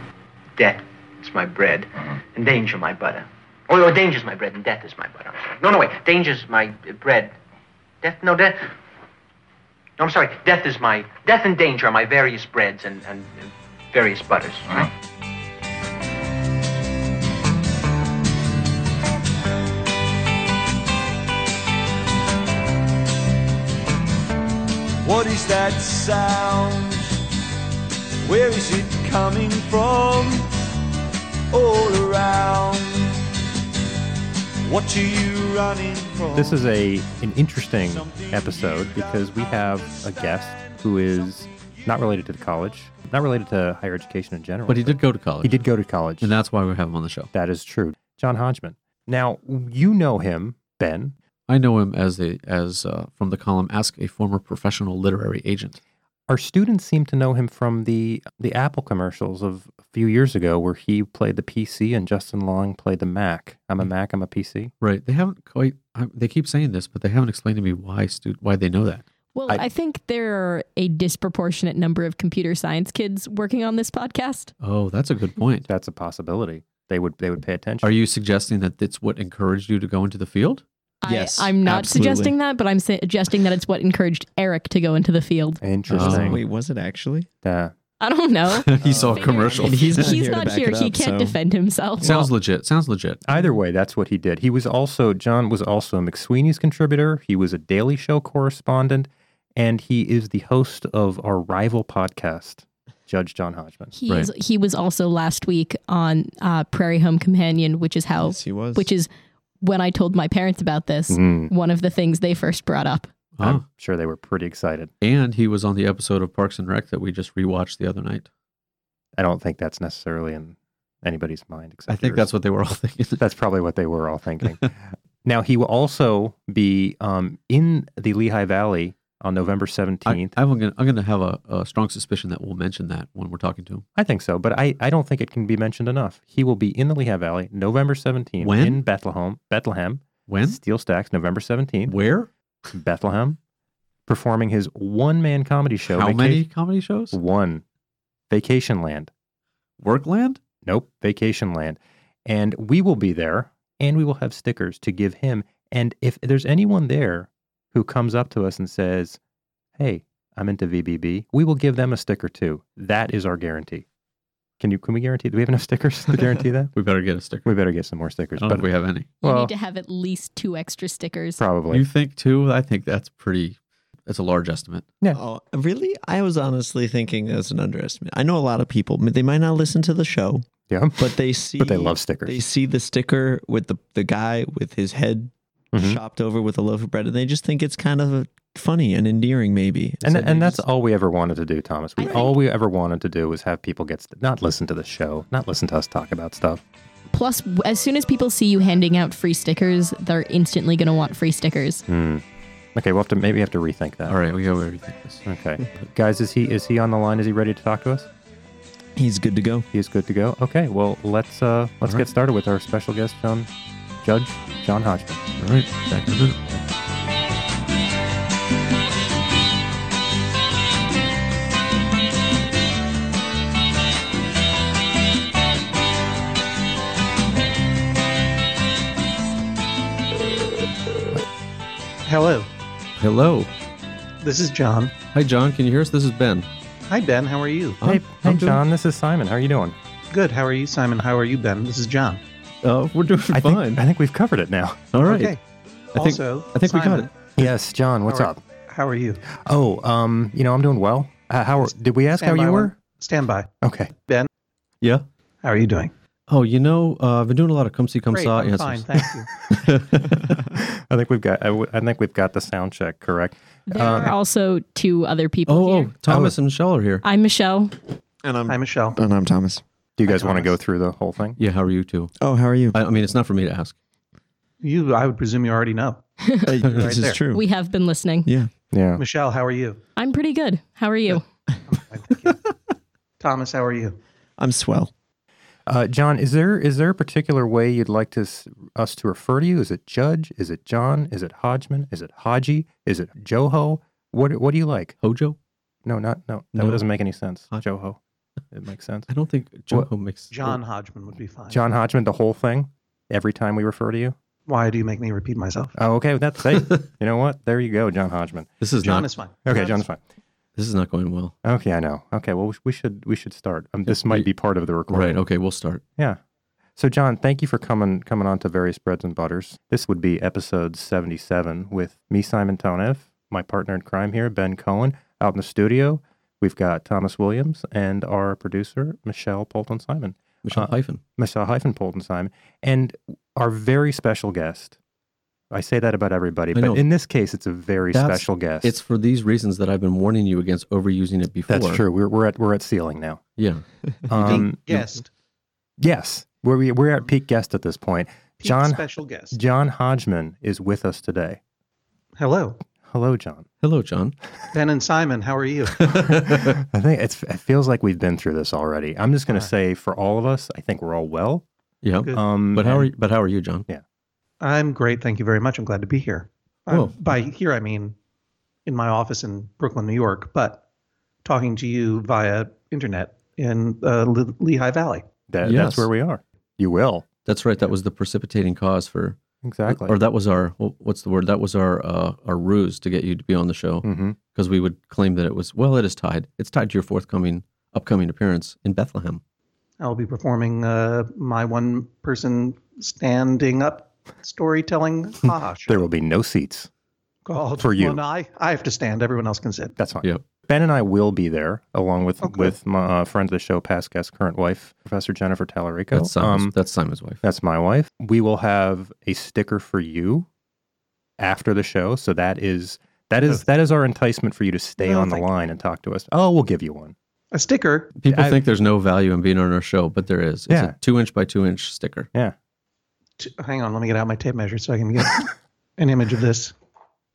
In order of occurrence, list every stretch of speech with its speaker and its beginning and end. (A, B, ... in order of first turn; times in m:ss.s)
0:00.5-0:07.4 A
0:08.0-0:08.7 A
0:10.0-0:14.9 A
0:25.0-0:27.2 B
0:28.2-0:30.5 B
0:31.5-0:33.3 B
0:34.6-0:36.6 B
0:36.3-0:46.4 C
0:37.9-0:40.6 B
0:44.7-0:45.6 D
0:46.2-0:47.3 D
0:47.3-0:51.2 C
0:51.5-0:55.8 D
0:56.3-1:04.7 C
1:04.8-1:09.0 D
1:09.3-1:14.5 E
1:14.6-1:15.7 D
1:15.7-1:17.9 C
1:17.8-1:20.6 D
1:21.0-1:25.6 E
1:21.0-1:22.4 F
1:25.6-1:26.4 C
1:25.9-1:26.4 D
1:26.0-1:27.3 F
1:27.4-1:27.7 C
1:28.0-1:32.3 E
1:28.5-1:30.1 D
1:28.8-1:29.4 C
1:29.5-1:31.4 F
1:32.0-1:32.3 F
1:32.0-1:33.2 D
1:33.2-1:43.9 C
1:44.0-1:49.1 E
1:48.2-1:48.9 F
1:49.6-1:53.1 E
1:51.1-1:51.5 C
1:53.4-1:53.6 D
1:53.4-1:54.9 C
1:55.0-1:58.2 D
1:59.2-2:02.3 C
2:01.9-2:03.2 D
2:03.2-2:10.3 C
2:10.0-2:13.8 D
2:14.0-2:22.0 C
2:18.4-2:18.8 D
2:20.3-2:20.6 D
2:21.9-2:22.3 D
2:22.7-2:23.4 C
2:24.1-2:26.4 C
2:25.9-2:27.2 D
2:27.1-2:27.6 C
2:28.3-2:29.1 C
2:29.8-2:30.4 D
2:30.6-2:39.2 C
2:39.8-2:43.8 C
2:44.6-2:46.7 C
2:46.7-2:47.4 D
2:47.4-2:48.7 C
2:48.4-2:49.1 D
2:49.2-2:49.5 C
2:49.2-2:51.4 E
2:51.4-2:51.9 C
2:51.7-2:54.8 D
2:55.1-3:10.5 F
3:00.7-3:02.4 C
3:05.7-3:06.0 C
3:10.0-3:16.6 C
3:10.2-3:10.5 D
3:12.0-3:12.3 E
3:17.1-3:21.8 E
3:21.9-3:22.2 C
3:22.7-3:24.2 C
3:24.1-3:25.2 D
3:25.2-3:28.1 C
3:29.0-3:29.7 F
3:29.7-3:33.5 C
3:34.0-3:35.2 C
3:35.4-3:36.5 D
3:52.0-3:52.5 G
3:53.0-3:53.5 D
3:54.2-3:54.9 G
3:55.1-3:56.5 D
3:56.9-3:57.8 G
3:57.8-3:58.6 D
3:57.8-3:59.8 C
4:00.1-4:02.2 G
4:02.6-4:03.8 D
4:03.3-4:04.9 C
4:04.9-4:05.3 D
4:05.0-4:05.4 G
4:05.9-4:07.1 G
4:05.9-4:07.3 D
4:07.4-4:08.4 C
4:08.1-4:09.2 G
4:09.3-4:12.7 C
4:11.6-4:14.3 G
4:13.6-4:13.9 C
4:15.4-4:15.9 G
4:16.3-4:20.4 D
4:18.1-4:19.3 G
4:20.5-4:24.1 C
4:23.7-4:26.0 E
4:25.5-4:27.0 D
4:26.1-4:26.3 C
4:27.0-4:27.8 E
4:28.2-4:29.6 F
4:28.5-4:29.0 G
4:30.0-4:31.4 C
4:30.1-4:30.5 G
4:31.4-4:32.1 D
4:32.2-4:32.8 F
4:32.7-4:33.8 D
4:34.6-4:36.0 G
4:36.2-4:36.6 E
4:36.4-4:37.4 F
4:36.7-4:37.2 G
4:37.3-4:38.3 E
4:38.7-4:39.0 C
4:39.0-4:39.8 G
4:40.0-4:41.2 E
4:41.7-4:42.4 G
4:43.2-4:44.0 G
4:44.4-4:44.9 F
4:45.7-4:54.9 C
4:55.0-4:55.4 D
4:55.8-4:58.0 C
4:56.5-4:56.8 D
4:58.5-4:59.1 C
4:59.1-5:00.6 D
5:00.3-5:01.6 G
5:01.5-5:04.1 C
5:04.5-5:05.8 G
5:05.8-5:08.5 C
5:06.5-5:06.8 D
5:08.6-5:09.1 D
5:08.8-5:09.8 G
5:09.4-5:10.0 C
5:10.6-5:11.3 D
5:11.4-5:15.2 C
5:13.9-5:14.3 D
5:14.9-5:15.8 D
5:16.8-5:34.8 C
5:30.4-5:31.0 D
5:35.5-5:38.7 C
5:36.5-5:36.8 D
5:37.9-5:41.8 D
5:41.5-5:43.2 C
5:43.4-5:43.6 D
5:44.1-5:44.9 C
5:44.2-5:44.4 D
5:44.3-5:45.1 G
5:45.8-5:51.4 C
5:48.4-5:49.4 G
5:52.2-5:52.6 G
5:52.8-5:53.4 C
5:53.6-5:54.1 D
5:54.5-5:56.0 G
5:55.8-5:56.6 D
5:55.9-6:01.4 C
6:01.8-6:03.6 D
6:02.0-6:02.9 C
6:04.4-6:07.9 G
6:06.7-6:06.9 D
6:08.6-6:10.6 G
6:11.2-6:15.0 G
6:15.3-6:17.0 C
6:15.4-6:15.9 D
6:17.2-6:19.2 D
6:19.4-6:20.0 C
6:19.7-6:29.2 D
6:23.8-6:24.2 C
6:29.8-6:35.8 G
6:35.7-6:36.7 C
6:37.2-6:39.7 G
6:37.6-6:38.0 C
6:39.8-6:46.5 C
6:42.2-6:42.5 G
6:45.9-6:47.2 D
6:47.2-6:50.3 C
6:51.2-6:56.9 C
6:54.8-6:55.3 G
6:57.3-6:57.9 G
6:58.0-7:02.1 D
6:58.1-6:58.4 C
7:03.2-7:06.5 G